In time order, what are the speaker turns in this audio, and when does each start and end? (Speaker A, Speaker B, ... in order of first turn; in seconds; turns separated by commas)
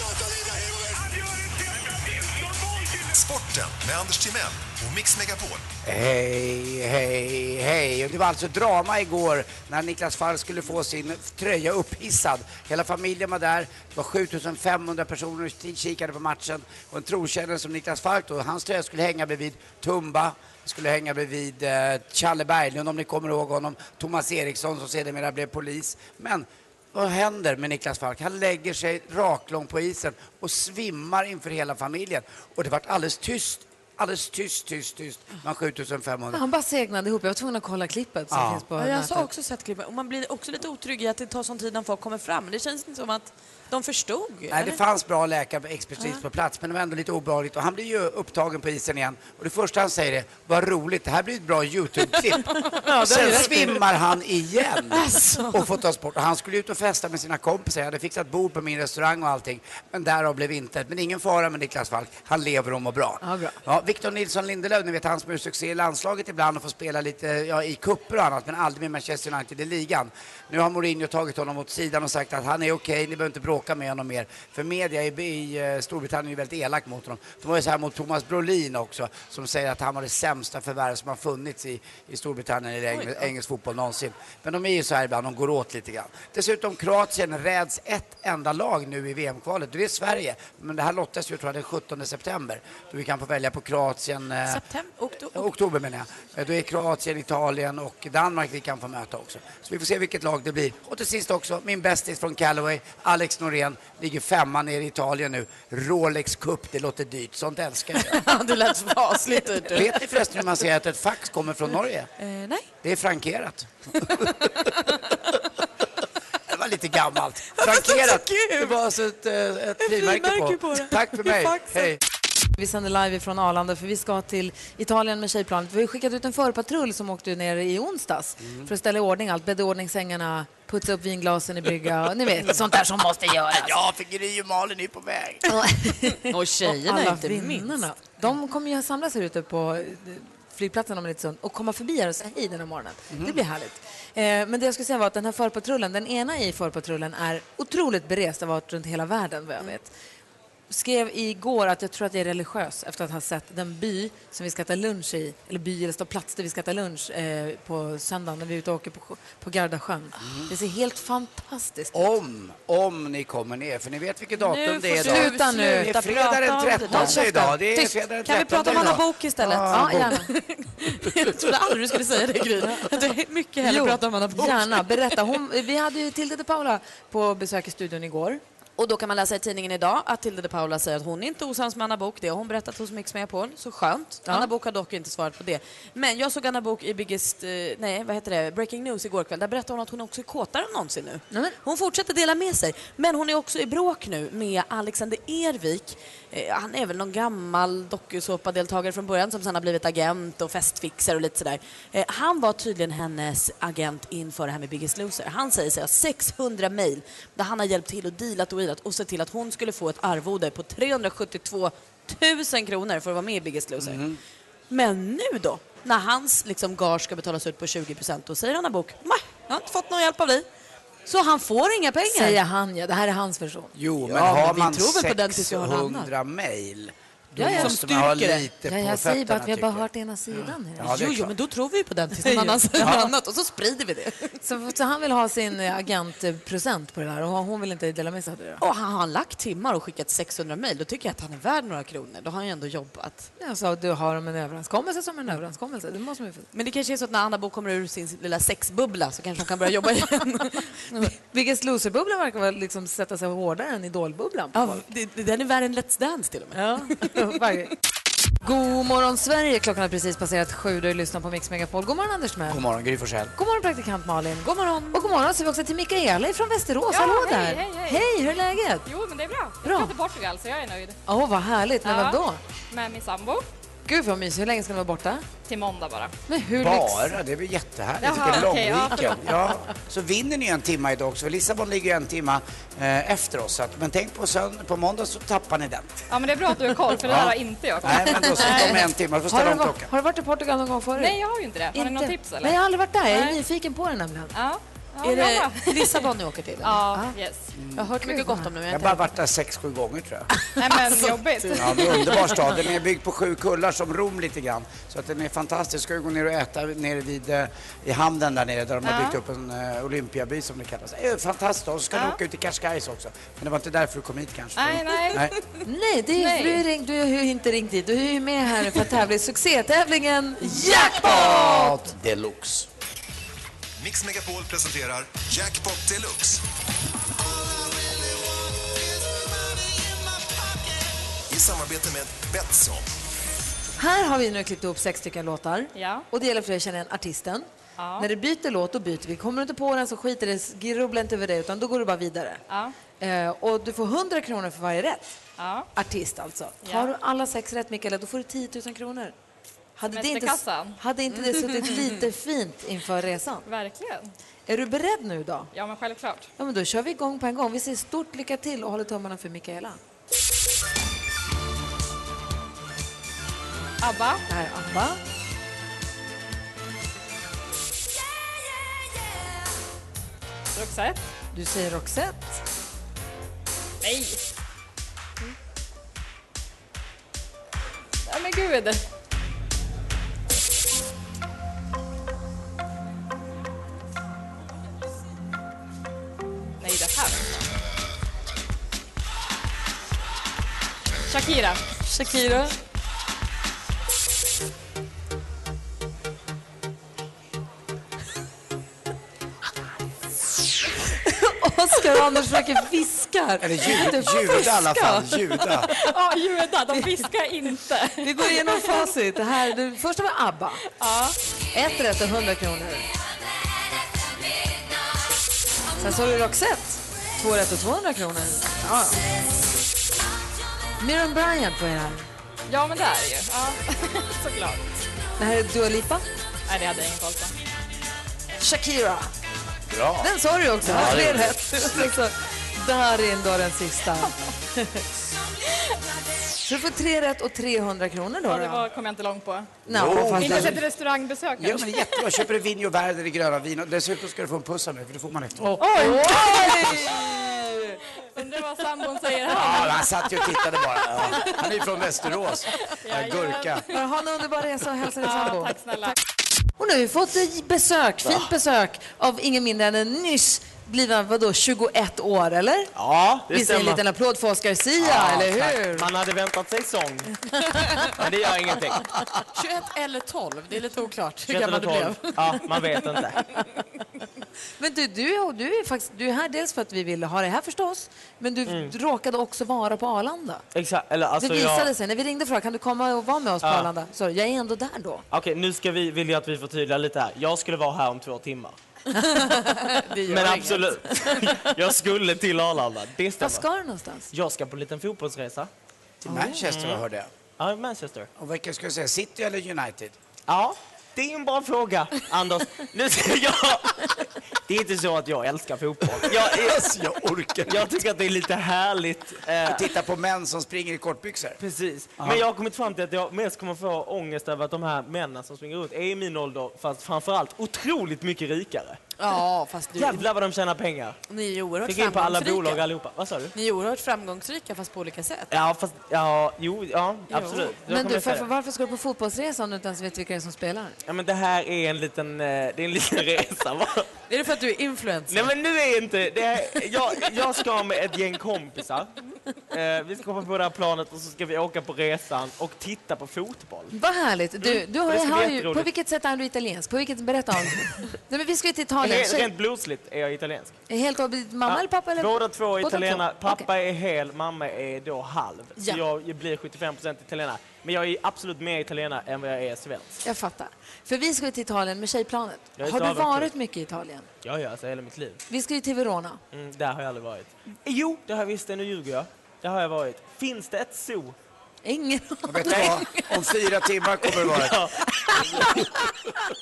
Speaker A: 2.9-5.7, Speaker B: 5.8-36.4, Speaker C: 36.3-39.3, Speaker B: 38.3-38.6, Speaker D: 38.8-44.8, Speaker B: 44.5-94.6, Speaker D: 52.6-53.8, Speaker C: 52.9-53.7, Speaker D: 54.9-55.6, Speaker C: 63.2-63.6, Speaker D: 82.9-83.3, Speaker D: 94.5-95.5, Speaker B: 95.3-108.2, Speaker D: 108.0-110.0, Speaker B: 109.7-112.1, Speaker D: 112.2-112.7, Speaker B: 112.8-114.6, Speaker D: 114.2-114.7, Speaker B: 116.5-122.0, Speaker D: 117.6-118.8, Speaker D: 119.8-122.0, Speaker C: 122.6-133.8, Speaker B: 128.4-128.7, Speaker B: 133.5-135.6, Speaker C: 135.5-149.9, Speaker D: 136.3-137.8, Speaker B: 143.1-143.4, Speaker C: 150.7-162.0, Speaker B: 160.2-160.5, Speaker B: 161.9-170.2, Speaker D: 164.4-175.1, Speaker C: 165.0-165.9, Speaker C: 166.8-167.9, Speaker C: 168.6-168.9, Speaker C: 169.7-170.3, Speaker C: 173.6-178.4, Speaker D: 178.8-214.0, Speaker C: 191.3-191.6, Speaker B: 213.8-214.2, Speaker D: 214.7-220.5, Speaker D: 221.1-222.4, Speaker C: 222.1-223.7, Speaker B: 223.8-231.3, Speaker D: 224.1-226.1, Speaker C: 227.4-227.8, Speaker D: 227.4-228.5, Speaker C: 228.7-231.0, Speaker D: 230.8-234.3, Speaker C: 232.2-233.1, Speaker B: 232.8-233.1, Speaker C: 234.4-238.6, Speaker D: 238.6-243.3, Speaker C: 243.4-246.5, Speaker D: 246.5-251.1, Speaker C: 251.0-254.8, Speaker D: 254.5-257.1, Speaker C: 256.6-257.7, Speaker C: 258.4-262.6, Speaker B: 262.5-263.3, Speaker C: 263.4-268.9, Speaker D: 264.4-265.2, Speaker E: 266.9-268.1, Speaker E: 268.8-271.0, Speaker C: 269.6-269.9, Speaker C: 271.1-272.4, Speaker E: 271.8-272.2, Speaker E: 272.7-273.4, Speaker C: 273.9-275.3, Speaker E: 275.5-276.1, Speaker C: 276.3-277.2, Speaker B: 276.6-286.0, Speaker E: 278.0-279.4, Speaker E: 286.1-288.8, Speaker B: 287.0-289.9, Speaker C: 287.9-291.2, Speaker E: 291.0-292.6, Speaker C: 291.7-294.3, Speaker E: 293.1-293.4, Speaker E: 294.3-296.1, Speaker D: 295.0-296.9, Speaker E: 296.6-297.5, Speaker C: 296.9-297.1, Speaker B: 297.6-297.9, Speaker D: 297.8-299.1, Speaker C: 298.0-298.5, Speaker B: 298.7-300.3, Speaker D: 300.4-302.1, Speaker E: 300.6-302.5, Speaker B: 301.6-315.3, Speaker E: 308.8-309.2, Speaker E: 311.9-312.2, Speaker E: 314.6-315.4, Speaker C: 315.6-321.9, Speaker E: 316.2-316.6, Speaker B: 320.5-322.7, Speaker A: 323.8-326.4, Speaker A: 331.3-332.9, Speaker C: 333.8-337.5, Speaker E: 335.7-336.1, Speaker E: 337.8-338.1, Speaker C: 338.0-342.4, Speaker E: 342.5-342.8, Speaker C: 343.0-345.2, Speaker E: 345.4-345.7, Speaker C: 345.8-349.1, Speaker E: 346.6-346.9, Speaker C: 349.8-353.4, Speaker E: 349.9-350.8, Speaker E: 353.4-354.1, Speaker C: 354.5-355.5, Speaker E: 355.5-356.3, Speaker C: 356.4-359.8, Speaker E: 363.8-364.2, Speaker C: 364.3-365.0, Speaker E: 370.5-371.0, Speaker C: 371.3-372.4, Speaker E: 373.8-374.2, Speaker E: 378.1-378.8, Speaker E: 386.6-387.5, Speaker E: 391.1-391.6, Speaker D: 391.9-392.4, Speaker C: 392.1-392.5, Speaker C: 401.0-405.8, Speaker B: 403.4-405.7, Speaker E: 404.2-404.5, Speaker E: 405.4-408.9, Speaker C: 406.7-407.1, Speaker C: 408.0-410.6, Speaker E: 410.7-411.2, Speaker C: 411.5-412.9, Speaker C: 415.8-419.0, Speaker C: 420.8-422.1, Speaker E: 422.5-424.8, Speaker C: 425.2-426.1, Speaker E: 426.5-427.3, Speaker C: 428.4-429.1, Speaker B: 429.7-431.9, Speaker C: 430.0-434.8, Speaker F: 430.8-431.2, Speaker C: 436.4-438.6, Speaker E: 438.3-442.1, Speaker C: 439.7-440.6, Speaker B: 439.7-440.6, Speaker B: 441.4-446.9, Speaker C: 445.5-447.7, Speaker E: 445.6-447.2, Speaker E: 448.0-451.5, Speaker B: 449.3-453.6, Speaker E: 452.7-453.8, Speaker C: 453.7-455.5, Speaker E: 455.0-456.0, Speaker C: 456.6-462.7, Speaker F: 462.8-463.8, Speaker C: 463.3-465.9, Speaker F: 464.8-469.0, Speaker D: 469.2-472.7, Speaker F: 471.3-473.2, Speaker C: 474.6-480.4, Speaker F: 478.5-478.7, Speaker F: 480.5-481.7, Speaker C: 481.2-485.0, Speaker F: 483.4-483.7, Speaker F: 485.1-488.6, Speaker C: 488.9-489.8, Speaker D: 489.6-490.8, Speaker F: 490.1-493.4, Speaker C: 493.2-494.1, Speaker F: 494.1-495.5, Speaker B: 496.0-497.1, Speaker C: 496.1-496.4, Speaker F: 496.4-496.8, Speaker F: 497.4-498.1, Speaker B: 498.2-500.0, Speaker F: 500.3-506.7, Speaker B: 506.0-507.8, Speaker F: 507.5-509.7, Speaker B: 509.4-511.4, Speaker F: 511.4-518.8, Speaker B: 512.0-512.2, Speaker D: 519.0-520.1, Speaker F: 519.8-521.0, Speaker D: 521.1-522.6, Speaker F: 521.6-523.3, Speaker D: 523.4-525.3, Speaker F: 525.3-528.3, Speaker D: 527.1-527.5, Speaker C: 527.6-530.8, Speaker F: 530.9-533.9, Speaker D: 534.1-535.3, Speaker F: 535.1-538.9, Speaker F: 539.5-543.7, Speaker C: 543.7-549.3, Speaker F: 544.4-545.7, Speaker F: 548.8-550.6, Speaker C: 550.7-553.5, Speaker F: 551.5-560.0, Speaker C: 560.0-564.1, Speaker F: 562.6-563.3, Speaker F: 564.2-565.2, Speaker C: 565.3-566.2, Speaker F: 566.3-571.1, Speaker C: 571.6-573.1, Speaker B: 572.3-574.7, Speaker F: 574.2-575.6, Speaker C: 575.1-575.6